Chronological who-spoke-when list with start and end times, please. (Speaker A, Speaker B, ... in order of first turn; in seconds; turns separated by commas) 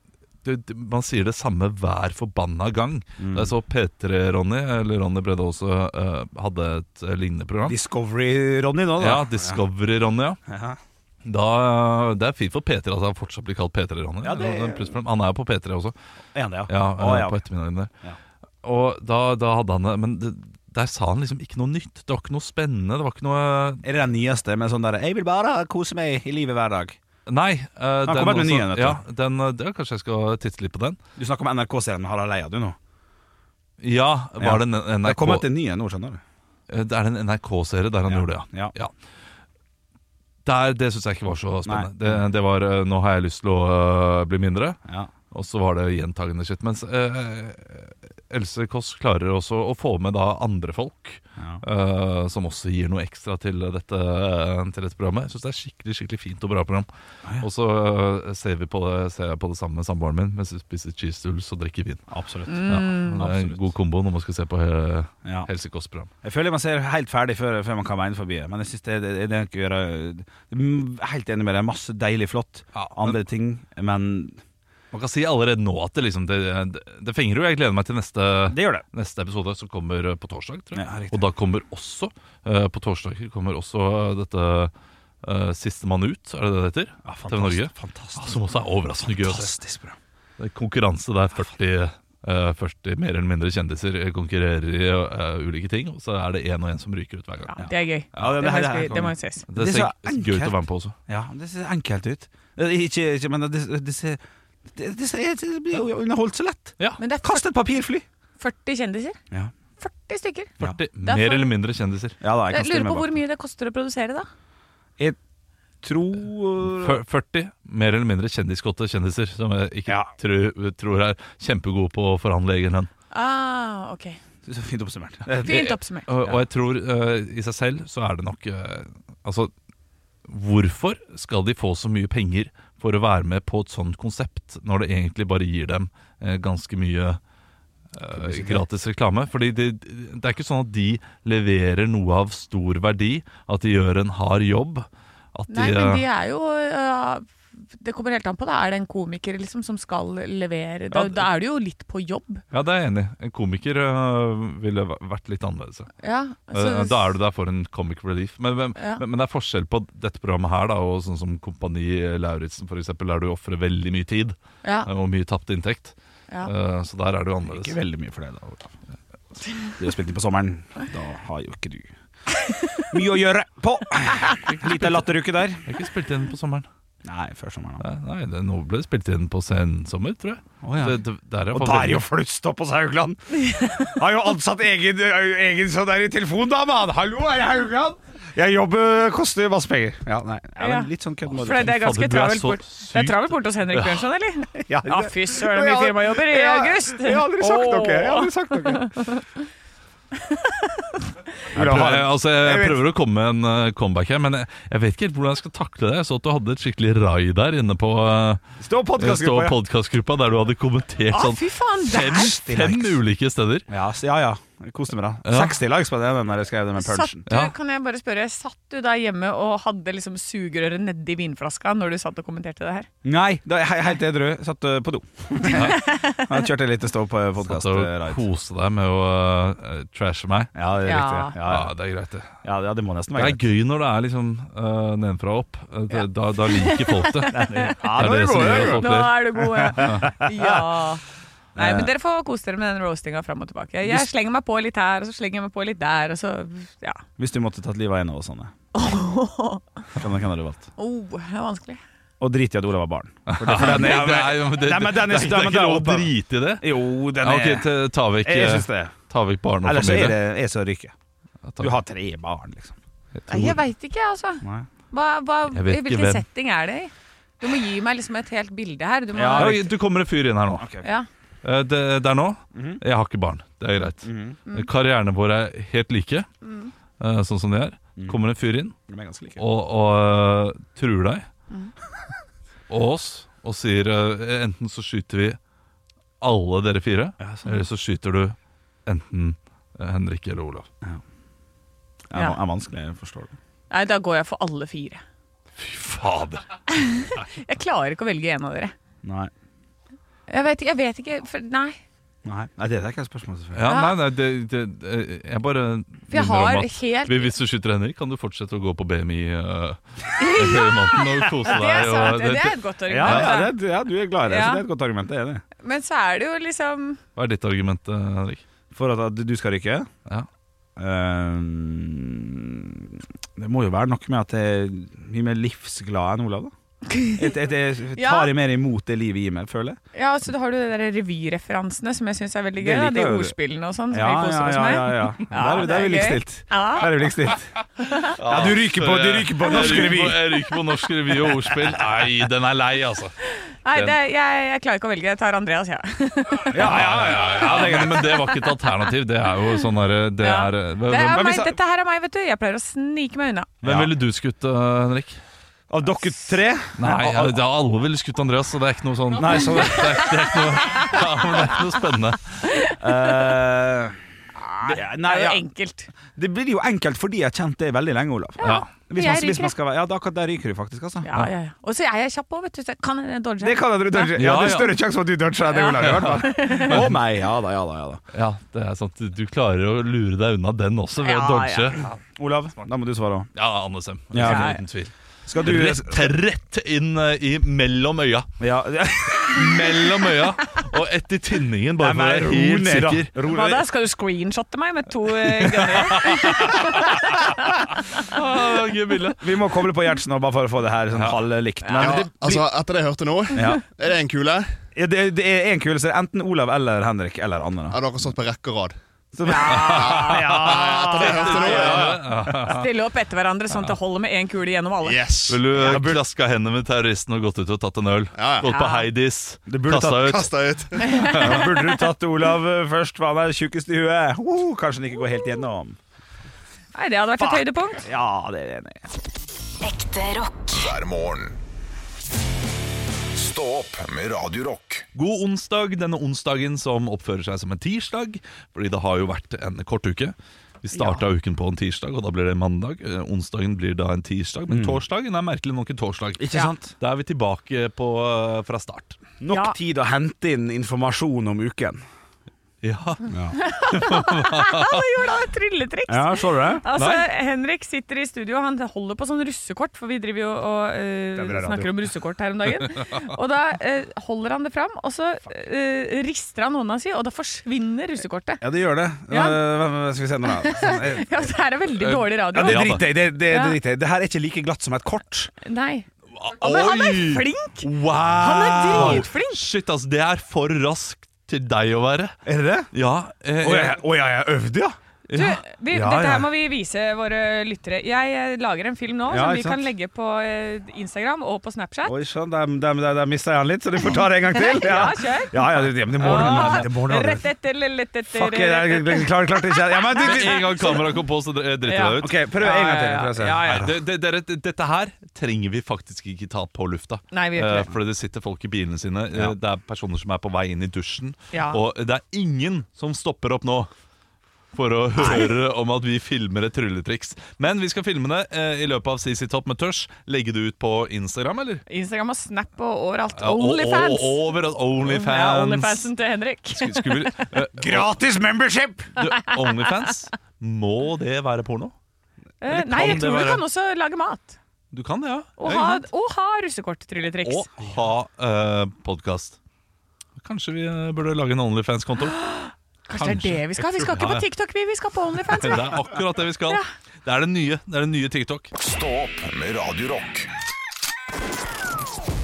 Speaker A: 0.4-7.8, Speaker B: 3.2-3.5, Speaker B: 7.6-9.6, Speaker A: 9.0-10.4, Speaker B: 10.4-10.8, Speaker A: 11.2-15.9, Speaker B: 14.2-14.9, Speaker B: 16.3-17.4, Speaker A: 16.7-17.9, Speaker A: 18.6-23.8, Speaker B: 23.8-27.0, Speaker A: 27.2-31.0, Speaker B: 28.0-29.0, Speaker B: 31.2-32.8, Speaker A: 33.8-35.5, Speaker B: 34.4-36.2, Speaker A: 36.7-38.9, Speaker B: 38.1-38.7, Speaker A: 40.4-44.8, Speaker B: 41.6-42.2, Speaker B: 44.9-45.1, Speaker A: 45.3-56.9, Speaker B: 51.4-51.6, Speaker A: 57.4-62.0, Speaker B: 62.1-62.6, Speaker C: 62.5-63.2, Speaker A: 62.7-66.1, Speaker B: 63.2-63.6, Speaker B: 66.2-74.4, Speaker A: 72.7-73.2, Speaker A: 74.9-84.7, Speaker B: 78.5-78.8, Speaker B: 80.7-81.3, Speaker A: 85.2-89.5, Speaker B: 87.0-88.4, Speaker B: 89.0-90.0, Speaker A: 90.4-97.6, Speaker C: 97.5-99.5, Speaker B: 97.6-104.2, Speaker A: 98.2-98.4, Speaker A: 99.5-100.9, Speaker B: 104.7-108.0, Speaker C: 107.0-107.5, Speaker C: 108.4-109.2, Speaker C: 109.8-111.5, Speaker A: 110.6-112.2, Speaker B: 112.2-113.1, Speaker C: 112.5-114.3, Speaker B: 115.8-117.0, Speaker A: 116.7-122.9, Speaker C: 123.1-124.2, Speaker B: 124.5-126.3, Speaker C: 125.4-126.2, Speaker A: 125.4-129.5, Speaker A: 130.3-137.2, Speaker A: 137.9-146.0, Speaker B: 138.1-138.6, Speaker C: 145.5-152.4, Speaker A: 150.9-151.3, Speaker A: 152.5-155.9, Speaker C: 156.0-157.0, Speaker A: 156.5-167.8, Speaker C: 158.8-159.0, Speaker C: 164.6-164.9, Speaker B: 167.4-168.7, Speaker B: 169.8-171.9, Speaker B: 172.9-175.6, Speaker A: 174.4-175.1, Speaker A: 175.6-176.7, Speaker B: 177.0-177.8, Speaker A: 177.8-182.0, Speaker B: 180.6-181.0, Speaker B: 181.5-191.7, Speaker C: 183.4-183.9, Speaker C: 190.6-199.3, Speaker A: 191.4-194.1, Speaker B: 194.6-198.9, Speaker C: 200.1-201.0, Speaker B: 201.5-202.8, Speaker A: 201.5-208.4, Speaker B: 208.6-209.6, Speaker A: 209.0-213.7, Speaker C: 211.1-212.3, Speaker B: 211.9-213.0, Speaker B: 213.7-217.2, Speaker A: 215.2-215.6, Speaker C: 216.8-222.9, Speaker B: 223.0-228.2, Speaker C: 225.4-226.4, Speaker A: 225.5-225.8, Speaker A: 227.4-230.5, Speaker B: 230.5-231.7, Speaker C: 230.8-231.3, Speaker A: 231.4-232.3, Speaker B: 232.4-233.4, Speaker A: 233.1-240.0, Speaker C: 235.9-241.0, Speaker B: 237.3-240.7, Speaker B: 241.5-241.9, Speaker C: 241.6-247.0, Speaker B: 247.2-248.5, Speaker C: 248.7-249.8, Speaker B: 249.9-250.7, Speaker C: 250.8-251.8, Speaker B: 252.2-257.7, Speaker A: 253.3-260.2, Speaker B: 258.2-258.9, Speaker B: 259.6-260.9, Speaker A: 261.4-261.8, Speaker B: 261.6-262.8, Speaker A: 263.1-263.6, Speaker C: 263.3-269.6, Speaker B: 264.4-264.7, Speaker A: 265.5-266.2, Speaker B: 269.1-269.6, Speaker A: 269.4-270.7, Speaker B: 270.5-270.9, Speaker A: 271.4-276.3, Speaker B: 272.5-272.8, Speaker B: 274.0-274.4, Speaker C: 276.4-276.7, Speaker A: 277.0-278.7, Speaker B: 278.9-279.4, Speaker A: 279.4-281.2, Speaker A: 282.7-285.4, Speaker A: 286.2-290.7, Speaker B: 287.2-287.5, Speaker B: 292.1-293.4, Speaker C: 293.7-295.0, Speaker A: 295.6-296.5, Speaker C: 296.7-298.7, Speaker B: 299.0-299.3, Speaker C: 300.3-301.8, Speaker B: 302.2-303.7, Speaker A: 303.5-313.4, Speaker C: 303.6-303.9, Speaker C: 306.1-307.3, Speaker C: 310.2-313.5, Speaker B: 312.9-315.4, Speaker C: 314.2-314.6, Speaker C: 315.6-317.0, Speaker A: 317.1-318.4, Speaker B: 318.7-319.9, Speaker B: 320.8-326.5, Speaker C: 326.9-327.3, Speaker B: 327.1-329.8, Speaker C: 327.9-328.3, Speaker C: 329.9-337.1, Speaker B: 332.6-333.3, Speaker B: 333.9-337.5, Speaker C: 337.8-338.1, Speaker A: 338.1-343.1, Speaker B: 338.2-340.3, Speaker C: 343.3-346.8, Speaker B: 346.5-348.2, Speaker A: 346.5-351.4, Speaker C: 348.0-348.4, Speaker C: 350.2-353.5, Speaker B: 351.1-351.5, Speaker B: 353.6-353.9, Speaker A: 353.6-355.2, Speaker B: 355.7-357.4, Speaker A: 356.8-362.4, Speaker B: 359.2-360.1, Speaker C: 359.3-361.6, Speaker C: 362.4-363.3, Speaker B: 362.8-364.0, Speaker C: 364.4-365.9, Speaker B: 364.6-365.4, Speaker B: 366.1-371.1, Speaker C: 368.4-369.5, Speaker A: 368.4-368.7, Speaker C: 371.0-374.1, Speaker B: 373.4-378.0, Speaker A: 374.1-374.8, Speaker C: 375.5-376.8, Speaker A: 375.8-376.9, Speaker A: 378.1-381.9, Speaker C: 381.0-381.8, Speaker B: 382.0-383.3, Speaker A: 383.3-388.3, Speaker B: 384.1-384.6, Speaker C: 384.2-384.6, Speaker B: 385.3-386.1, Speaker B: 388.4-389.8, Speaker A: 389.1-393.1, Speaker B: 391.8-393.6, Speaker C: 393.2-398.0, Speaker A: 395.4-397.0, Speaker A: 397.9-399.4, Speaker B: 399.2-402.5, Speaker A: 400.9-401.2, Speaker C: 401.6-402.0, Speaker D: 401.8-404.5, Speaker B: 403.3-403.6, Speaker B: 404.7-407.8, Speaker D: 407.7-408.8, Speaker B: 409.1-412.1, Speaker C: 409.2-410.3, Speaker A: 409.5-412.7, Speaker D: 409.6-412.0, Speaker C: 411.0-411.5, Speaker C: 412.3-415.0, Speaker D: 414.8-415.5, Speaker A: 415.3-420.4, Speaker B: 415.5-416.0, Speaker D: 418.2-418.4, Speaker C: 418.4-418.9, Speaker B: 419.5-420.3, Speaker D: 420.0-420.9, Speaker C: 420.8-421.7, Speaker B: 420.9-425.8, Speaker A: 421.0-421.4, Speaker C: 426.7-427.9, Speaker B: 427.2-428.8, Speaker E: 429.6-431.4, Speaker E: 433.1-434.9, Speaker A: 434.9-449.0, Speaker C: 440.7-441.0, Speaker B: 444.5-444.8, Speaker B: 446.2-446.7, Speaker B: 449.2-451.8, Speaker C: 449.3-449.6, Speaker A: 452.6-454.8, Speaker B: 453.1-453.4, Speaker C: 453.3-468.4, Speaker B: 455.9-456.6, Speaker A: 456.7-457.1, Speaker B: 461.1-461.7, Speaker B: 468.4-471.2, Speaker C: 469.1-469.4, Speaker C: 470.3-473.6, Speaker A: 471.8-472.8, Speaker B: 472.3-475.3, Speaker C: 475.4-475.9, Speaker A: 476.1-482.1, Speaker C: 476.4-479.4, Speaker B: 478.7-479.0, Speaker B: 482.2-482.7, Speaker A: 482.7-483.8, Speaker B: 483.4-484.8, Speaker A: 485.1-485.4, Speaker C: 485.1-491.9, Speaker B: 485.7-486.3, Speaker B: 489.1-489.6, Speaker B: 491.8-497.2, Speaker C: 494.3-495.4, Speaker C: 496.0-501.0, Speaker A: 496.0-496.6, Speaker B: 498.1-500.7, Speaker A: 500.0-502.1, Speaker C: 501.6-503.7, Speaker B: 502.0-503.7, Speaker A: 503.4-513.7, Speaker C: 507.1-507.7, Speaker C: 511.3-511.6, Speaker A: 514.5-521.6, Speaker C: 515.0-515.3, Speaker C: 521.7-527.3, Speaker A: 523.1-525.9, Speaker A: 526.5-527.9, Speaker B: 527.5-528.9, Speaker A: 529.0-531.7, Speaker C: 529.0-529.9, Speaker C: 532.4-534.4, Speaker A: 532.5-533.4, Speaker A: 534.7-535.9, Speaker C: 535.4-537.5, Speaker A: 537.2-539.4, Speaker A: 540.2-542.1, Speaker C: 542.0-545.8, Speaker A: 542.9-544.3, Speaker A: 545.3-548.5, Speaker E: 548.6-550.3